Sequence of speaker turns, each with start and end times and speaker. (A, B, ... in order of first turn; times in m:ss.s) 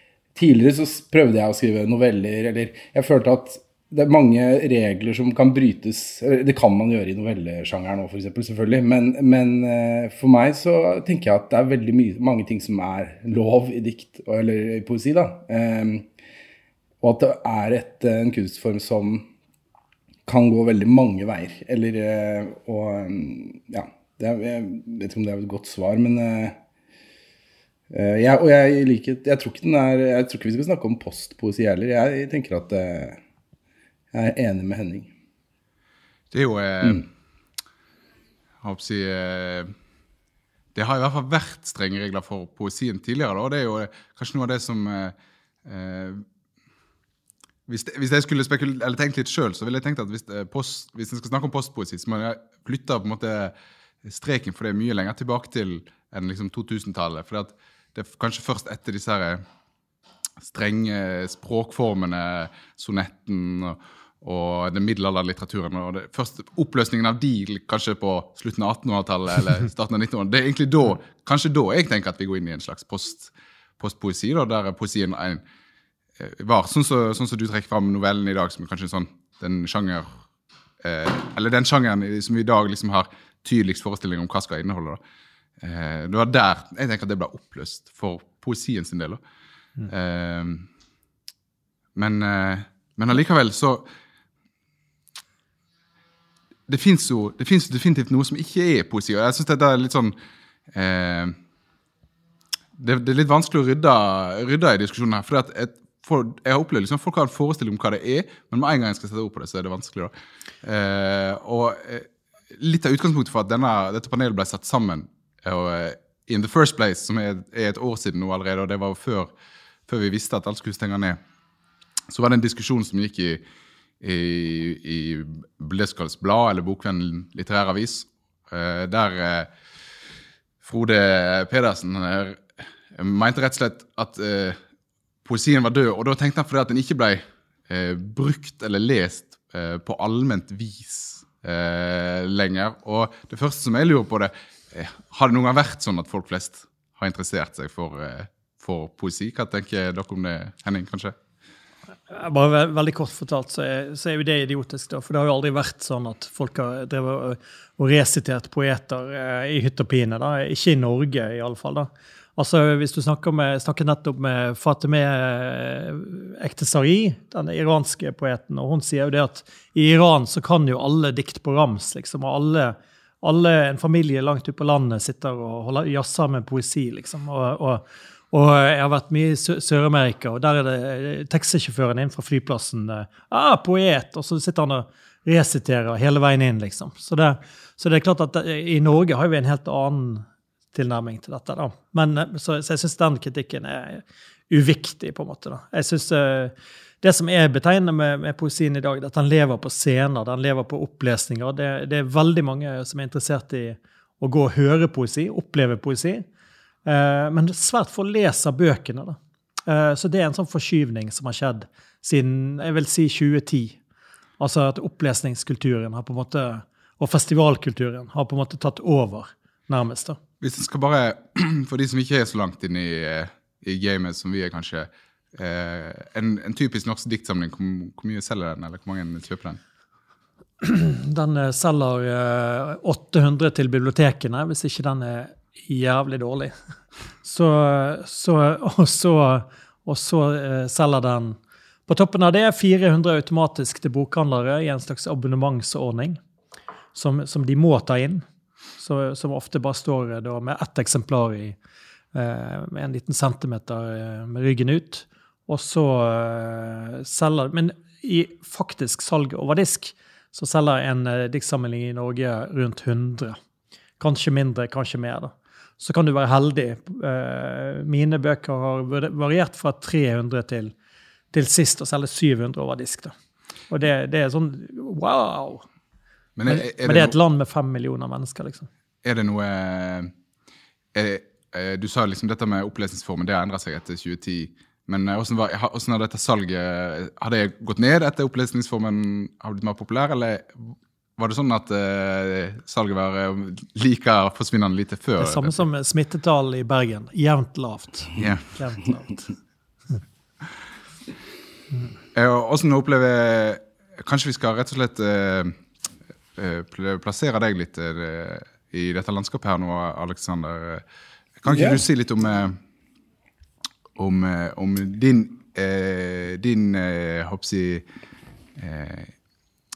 0:00.4-0:16.1 A
0:17.0-0:19.3 A
0:20.3-0:26.6 A
0:27.9-0:33.2 A
0:34.1-0:35.1 A
0:36.3-0:37.1 B
0:38.6-0:39.7 B
0:40.8-0:46.2 B
0:47.7-0:53.5 B
0:54.0-0:59.4 B
1:00.4-1:15.4 B
1:16.2-1:20.1 B
1:20.8-1:25.0 B
1:25.6-1:29.2 B
1:29.9-1:30.7 B
1:32.0-1:33.8 B
1:36.7-1:40.2 B
1:40.7-1:41.4 B
1:42.8-1:50.1 B
1:50.6-1:59.3 B
1:59.9-2:01.2 B
2:02.1-2:03.4 B
2:04.0-2:09.5 B
2:10.6-2:14.6 B
2:15.2-2:31.2 B
2:32.1-3:26.3 C
3:26.9-3:33.8 C
3:34.4-3:40.2 C
3:40.4-3:49.6 B
3:50.6-3:56.5 C
3:57.2-4:06.2 C
4:06.9-4:08.2 C
4:08.8-4:11.6 C
4:12.1-4:23.4 C
4:24.0-4:30.7 C
4:31.3-4:33.1 C
4:33.7-4:35.6 C
4:36.4-4:37.2 B
4:36.5-4:38.7 C
4:39.0-4:40.1 B
4:40.9-4:55.6 B
4:55.2-4:59.3 C
4:58.2-4:58.5 B
5:02.1-5:05.6 B
5:06.4-5:10.8 B
5:11.4-5:12.6 B
5:11.5-5:11.8 A
5:14.0-5:17.8 B
5:18.6-5:19.1 B